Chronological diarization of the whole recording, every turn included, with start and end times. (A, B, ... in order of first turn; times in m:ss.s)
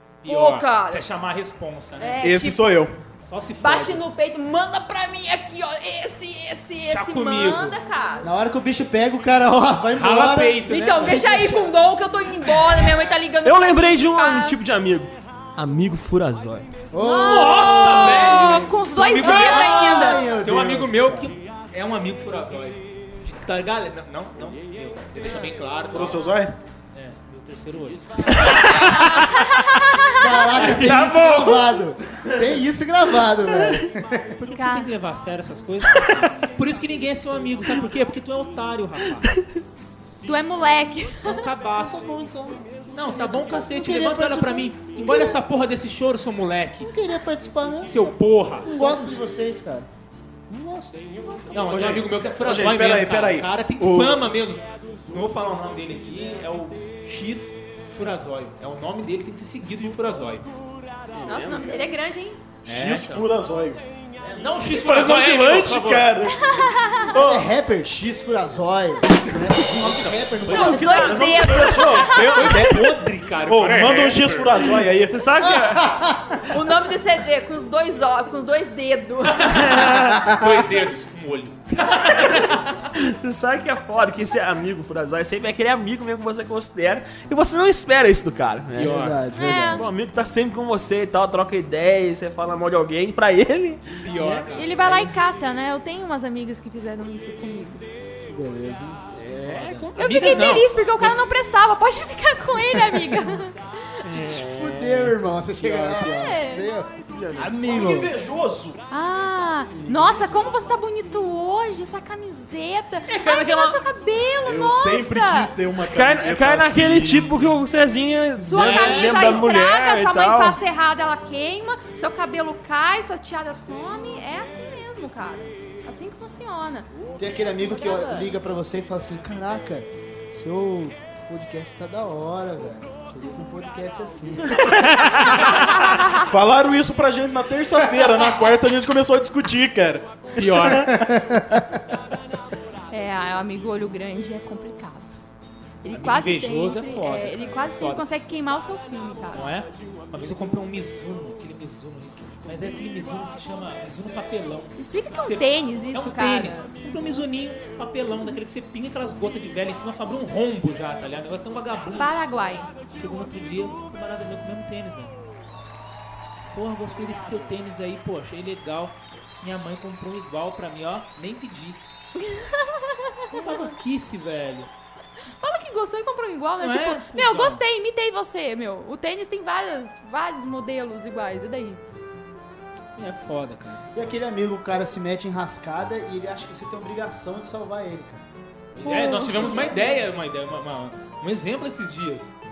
0:00.2-0:02.3 A
0:00.2-0:01.0 B
0:02.0-0:02.8 B
0:02.2-0:03.0 C
0:03.2-0:04.0 A
0:03.6-0:08.3 B
0:06.9-0:07.8 A
0:08.2-0:11.8 D
0:09.9-0:11.3 A
0:10.7-0:14.6 B
0:13.4-0:16.7 E
0:16.9-0:21.3 D
0:17.0-0:20.2 B
0:17.2-0:26.3 A
0:25.9-0:26.5 C
0:26.9-0:29.2 A
0:28.7-0:30.2 B
0:30.1-0:34.3 D
0:30.6-0:31.8 E
0:34.3-0:39.3 A
0:34.5-0:34.9 B
0:40.2-0:41.4 B
0:41.2-0:42.0 A
0:41.8-0:45.4 D
0:42.9-0:46.9 A
0:46.8-0:48.1 D
0:47.8-0:49.2 A
0:48.6-0:49.9 D
0:50.5-0:51.9 D
0:51.5-1:00.5 A
0:51.7-0:54.3 C
1:01.2-1:02.4 B
1:01.3-1:01.7 E
1:02.6-1:03.3 A
1:02.6-1:03.8 C
1:04.2-1:06.2 A
1:04.6-1:06.5 C
1:06.3-1:07.1 B
1:07.0-1:07.5 C
1:07.1-1:11.2 D
1:10.5-1:12.4 B
1:10.5-1:15.2 C
1:10.6-1:11.2 E
1:12.0-1:14.5 A
1:15.1-1:15.9 E
1:15.4-1:16.4 D
1:16.5-1:19.7 B
1:19.2-1:22.7 A
1:19.5-1:20.3 E
1:22.2-1:34.4 E
1:28.7-1:29.2 A
1:28.8-1:29.9 D
1:29.4-1:29.9 B
1:34.0-1:35.1 A
1:34.5-1:37.8 B
1:38.3-1:39.1 D
1:39.2-1:39.8 E
1:39.4-1:41.2 A
1:39.5-1:44.0 B
1:44.0-1:46.3 E
1:44.1-1:48.2 D
1:45.9-1:46.7 B
1:47.1-1:47.6 E
1:47.4-1:48.8 C
1:48.9-1:55.5 B
1:53.1-1:53.8 E
1:54.4-1:57.4 C
1:55.9-2:00.6 E
1:58.4-2:08.4 B
1:58.5-1:59.4 A
2:07.2-2:15.7 D
2:14.6-2:15.4 E
2:15.6-2:16.2 B
2:16.1-2:21.1 C
2:20.4-2:20.9 A
2:20.8-2:21.8 D
2:22.9-2:25.1 B
2:25.8-2:29.5 B
2:25.9-2:28.0 A
2:29.3-2:42.1 A
2:34.8-2:36.6 B
2:42.0-2:42.7 B
2:42.9-2:45.1 A
2:46.5-2:51.8 A
2:52.2-2:53.4 B
2:53.3-2:54.7 A
2:55.4-3:01.8 B
2:56.6-2:57.6 A
3:03.0-3:03.9 A
3:04.0-3:08.3 D
3:08.8-3:12.3 A
3:08.8-3:09.8 B